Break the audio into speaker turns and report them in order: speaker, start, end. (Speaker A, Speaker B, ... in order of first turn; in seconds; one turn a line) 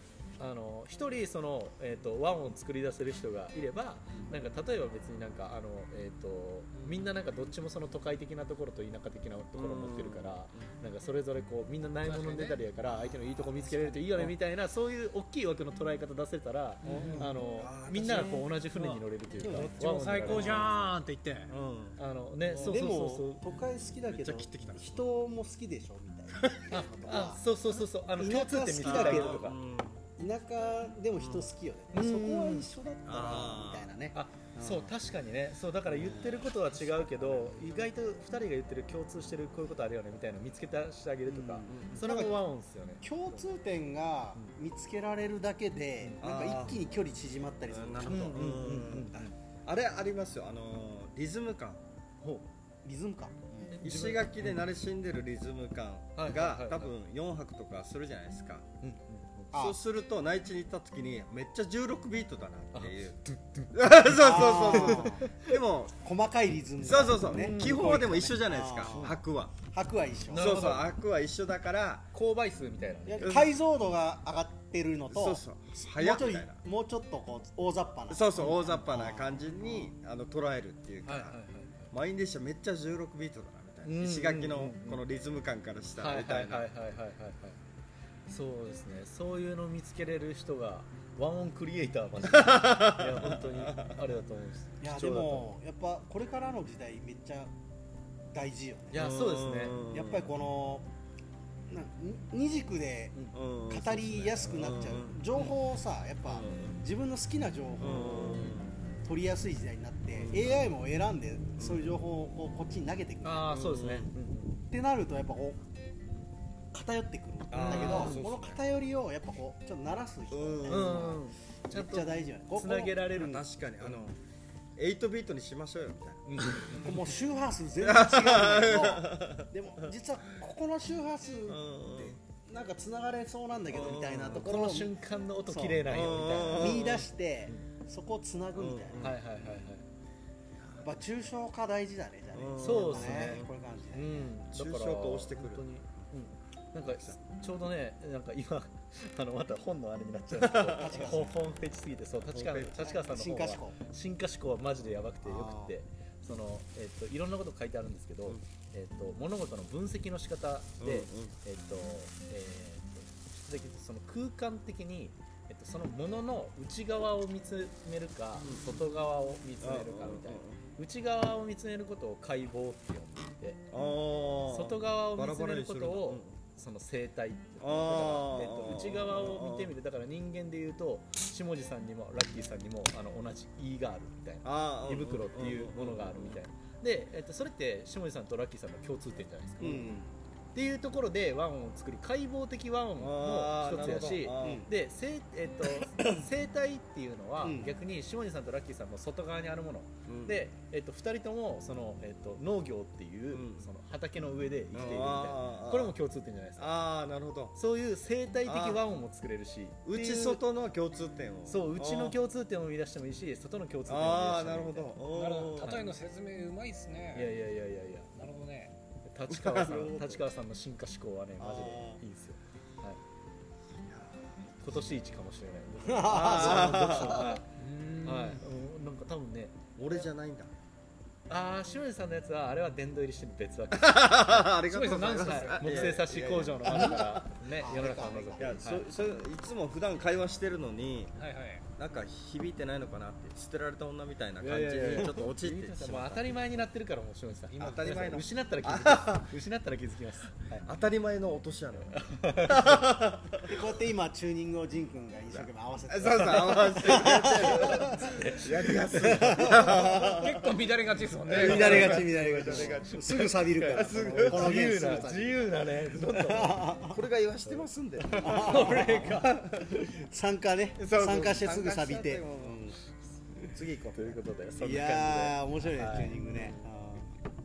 Speaker A: 0.4-20.8
Speaker B: 6.7-7.0
Speaker C: 9.5-10.7
Speaker B: 12.0-12.7
Speaker B: 13.6-14.1
Speaker B: 16.8-17.3
Speaker C: 16.9-18.5
Speaker D: 16.9-17.3
Speaker B: 18.7-21.5
Speaker C: 20.2-20.6
Speaker D: 20.3-20.5
Speaker C: 21.5-22.0
Speaker A: 22.0-23.4
Speaker D: 22.5-27.4
Speaker C: 22.6-23.0
Speaker C: 24.1-25.0
Speaker B: 26.5-26.8
Speaker A: 26.7-29.6
Speaker D: 28.2-29.4
Speaker C: 28.8-30.1
Speaker D: 30.2-34.9
Speaker C: 31.2-31.5
Speaker A: 31.9-32.7
Speaker C: 33.0-33.9
Speaker A: 34.1-43.5
Speaker D: 35.9-37.5
Speaker D: 41.3-42.5
Speaker C: 41.6-42.0
Speaker D: 43.0-49.1
Speaker C: 46.2-46.8
Speaker C: 47.7-51.8
Speaker A: 48.0-49.3
Speaker D: 52.8-53.8
Speaker A: 53.7-54.6
Speaker C: 53.8-58.6
Speaker A: 56.1-56.9
Speaker A: 58.8-59.5
Speaker D: 59.5-59.8
Speaker C: 59.5-63.2
Speaker A: 62.7-63.8
Speaker C: 63.7-66.0
Speaker D: 64.1-65.2
Speaker A: 64.4-65.5
Speaker D: 66.0-70.6
Speaker C: 66.8-69.6
Speaker A: 67.3-68.0
Speaker A: 68.8-69.1
Speaker A: 70.3-70.9
Speaker C: 70.3-72.1
Speaker A: 72.1-73.4
Speaker D: 73.0-79.9
Speaker C: 73.2-73.5
Speaker C: 75.1-76.6
Speaker C: 78.1-81.4
Speaker A: 81.0-81.9
Speaker C: 81.9-86.7
Speaker A: 83.8-85.0
Speaker A: 86.0-87.6
Speaker A: 88.3-95.5
Speaker C: 92.5-94.0
Speaker D: 94.8-97.5
Speaker D: 98.3-99.0
Speaker A: 98.9-99.8
Speaker C: 98.9-100.3
Speaker D: 99.9-100.9
Speaker D: 101.7-103.2
Speaker C: 103.3-105.2
Speaker D: 103.7-113.5
Speaker C: 106.3-106.8
Speaker C: 107.8-108.8
Speaker C: 110.1-110.6
Speaker C: 111.6-111.8
Speaker A: 113.2-114.7
Speaker C: 113.5-114.1
Speaker D: 114.7-115.6
Speaker D: 116.7-123.4
Speaker C: 117.5-118.6
Speaker A: 117.5-118.2
Speaker C: 120.3-121.0
Speaker A: 120.7-124.0
Speaker C: 123.2-124.2
Speaker C: 124.8-126.2
Speaker A: 126.3-126.9
Speaker D: 126.8-139.1
Speaker C: 127.8-129.5
Speaker C: 131.5-132.2
Speaker C: 133.7-134.5
Speaker A: 134.3-136.9
Speaker C: 135.9-137.1
Speaker C: 138.6-139.2
Speaker A: 139.0-139.9
Speaker C: 140.6-140.9
Speaker D: 140.8-144.3
Speaker C: 142.3-143.4
Speaker A: 142.6-173.6
Speaker C: 144.5-145.7
Speaker C: 146.9-147.2
Speaker C: 150.3-151.1
Speaker D: 150.7-151.4
Speaker C: 152.2-152.9
Speaker D: 152.8-153.8
Speaker D: 155.2-155.8
Speaker C: 160.8-161.3
Speaker C: 168.4-168.8
Speaker C: 169.6-170.6
Speaker C: 173.7-176.4
Speaker A: 174.5-189.9
Speaker C: 177.6-179.7
Speaker C: 184.4-186.4
Speaker D: 189.6-190.1
Speaker A: 190.5-206.8
Speaker C: 193.0-194.7
Speaker D: 194.4-194.7
Speaker D: 197.4-197.7
Speaker C: 200.1-200.4
Speaker C: 203.3-203.7
Speaker C: 204.7-205.9
Speaker C: 206.6-207.6
Speaker A: 207.5-210.4
Speaker C: 208.4-208.8
Speaker C: 209.8-212.2
Speaker A: 211.4-215.0
Speaker C: 213.9-215.8
Speaker B: 215.1-217.3
Speaker A: 215.6-215.9
Speaker A: 217.1-218.1
Speaker B: 218.1-218.7
Speaker A: 219.0-223.0
Speaker C: 219.3-220.2
Speaker C: 221.4-222.0
Speaker C: 223.8-224.6
Speaker A: 224.6-229.6
Speaker D: 225.8-227.4
Speaker C: 226.2-227.4
Speaker B: 227.6-228.4
Speaker C: 229.8-230.5
Speaker A: 231.3-234.6
Speaker C: 233.8-237.2
Speaker B: 234.7-236.0
Speaker A: 235.2-238.9
Speaker D: 236.7-237.1
Speaker D: 237.6-238.6
Speaker C: 238.4-241.1
Speaker B: 241.1-241.6
Speaker C: 241.8-246.4
Speaker A: 244.4-250.7
Speaker B: 247.5-248.2
Speaker C: 247.5-249.3
Speaker C: 250.6-253.6
Speaker A: 251.9-252.9
Speaker D: 253.4-259.8
Speaker C: 255.3-260.5
Speaker A: 257.5-259.0
Speaker B: 259.6-262.0
Speaker C: 261.3-264.6
Speaker D: 261.3-265.5
Speaker A: 261.4-266.7
Speaker D: 266.0-267.0
Speaker C: 266.7-269.8
Speaker A: 267.5-269.2
Speaker D: 268.2-269.0
Speaker B: 268.4-269.4
Speaker D: 269.7-272.8
Speaker C: 270.8-272.6
Speaker C: 273.5-274.2
Speaker A: 273.9-276.7
Speaker D: 274.6-277.1